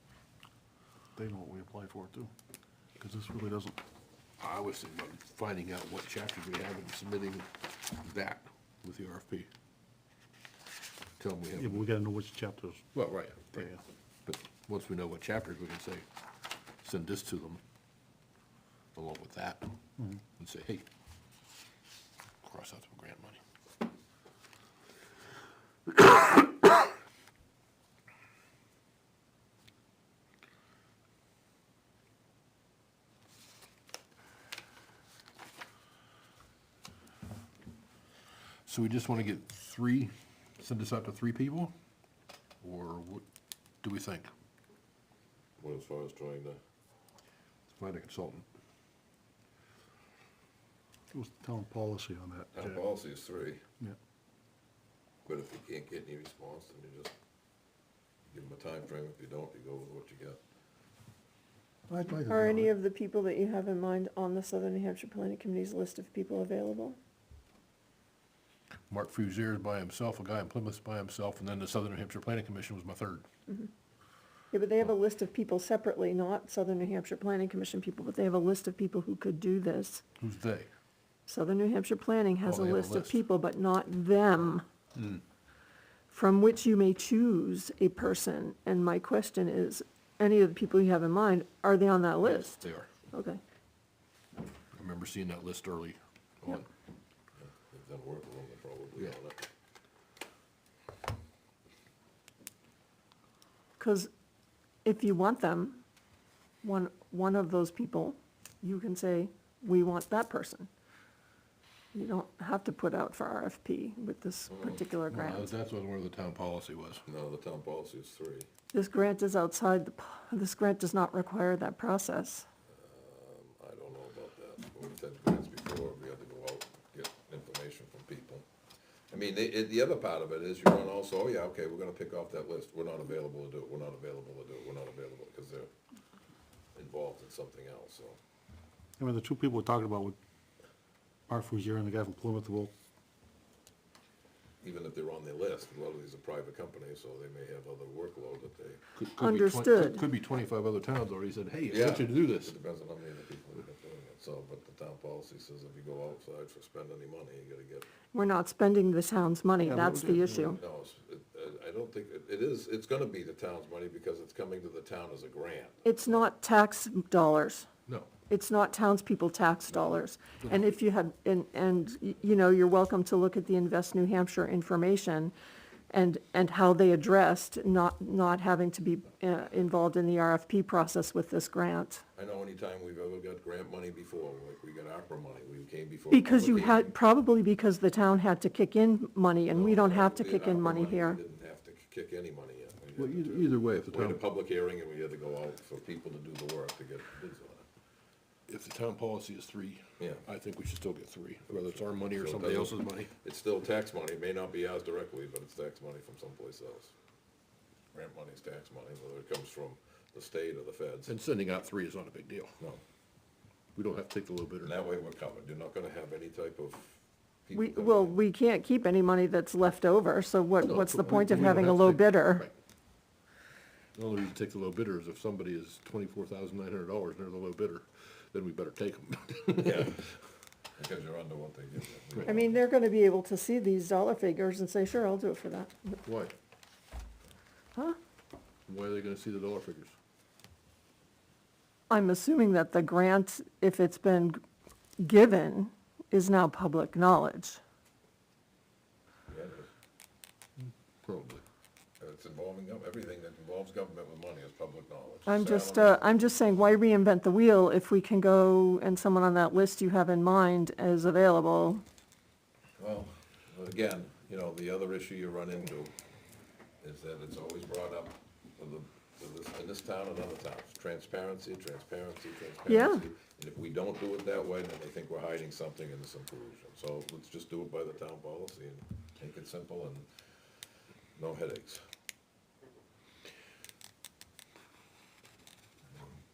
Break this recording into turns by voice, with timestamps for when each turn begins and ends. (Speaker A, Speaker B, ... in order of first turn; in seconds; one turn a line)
Speaker A: 1.1-2.3
Speaker A: 3.0-3.8
Speaker B: 4.4-9.5
Speaker B: 11.2-11.9
Speaker A: 11.6-12.9
Speaker B: 12.9-13.7
Speaker A: 13.5-13.8
Speaker B: 14.2-16.1
Speaker B: 16.8-17.6
Speaker B: 18.9-19.7
Speaker B: 20.4-20.9
Speaker B: 22.4-23.4
Speaker B: 38.6-41.7
Speaker B: 42.6-43.2
Speaker B: 43.8-44.3
Speaker C: 45.6-46.6
Speaker B: 47.7-48.5
Speaker A: 51.1-52.8
Speaker C: 52.5-53.6
Speaker C: 55.2-57.1
Speaker C: 58.3-60.4
Speaker A: 61.9-62.7
Speaker D: 62.3-67.0
Speaker B: 68.9-73.2
Speaker D: 74.5-80.0
Speaker B: 80.2-80.7
Speaker D: 81.3-84.7
Speaker B: 82.4-83.2
Speaker B: 85.0-85.2
Speaker D: 86.1-92.6
Speaker B: 92.2-92.9
Speaker D: 93.1-93.4
Speaker B: 94.7-96.7
Speaker C: 97.4-99.4
Speaker D: 103.8-104.1
Speaker D: 104.8-105.8
Speaker D: 106.6-110.7
Speaker D: 111.9-115.5
Speaker C: 114.5-114.8
Speaker B: 115.1-117.0
Speaker C: 117.0-118.5
Speaker D: 118.7-122.5
Speaker C: 122.7-128.4
Speaker C: 129.1-135.7
Speaker C: 136.7-138.2
Speaker A: 139.0-140.2
Speaker A: 141.3-142.7
Speaker C: 144.6-148.8
Speaker B: 148.9-152.5
Speaker D: 149.2-150.0
Speaker C: 151.7-157.8
Speaker D: 158.1-160.6
Speaker A: 159.7-160.5
Speaker C: 159.9-166.3
Speaker D: 165.8-167.7
Speaker D: 168.3-175.3
Speaker D: 175.9-182.0
Speaker C: 182.1-186.9
Speaker D: 186.1-191.2
Speaker C: 189.5-197.6
Speaker B: 192.9-194.2
Speaker B: 198.5-203.1
Speaker C: 200.0-200.2
Speaker C: 201.5-206.9
Speaker C: 207.9-211.1
Speaker B: 211.1-212.5
Speaker B: 213.7-214.7
Speaker C: 214.6-218.2
Speaker D: 217.5-222.5
Speaker B: 220.6-222.5
Speaker B: 223.9-229.9
Speaker C: 229.6-230.1
Speaker C: 230.8-232.6
Speaker D: 232.2-236.0
Speaker B: 236.0-236.3
Speaker B: 238.7-239.9
Speaker D: 241.9-244.4
Speaker D: 245.0-247.6
Speaker C: 249.3-249.7
Speaker B: 250.7-251.4
Speaker C: 252.0-256.0
Speaker D: 255.2-261.8
Speaker C: 262.8-265.9
Speaker C: 266.8-280.1
Speaker D: 272.7-273.0
Speaker C: 281.1-281.8
Speaker C: 285.9-286.2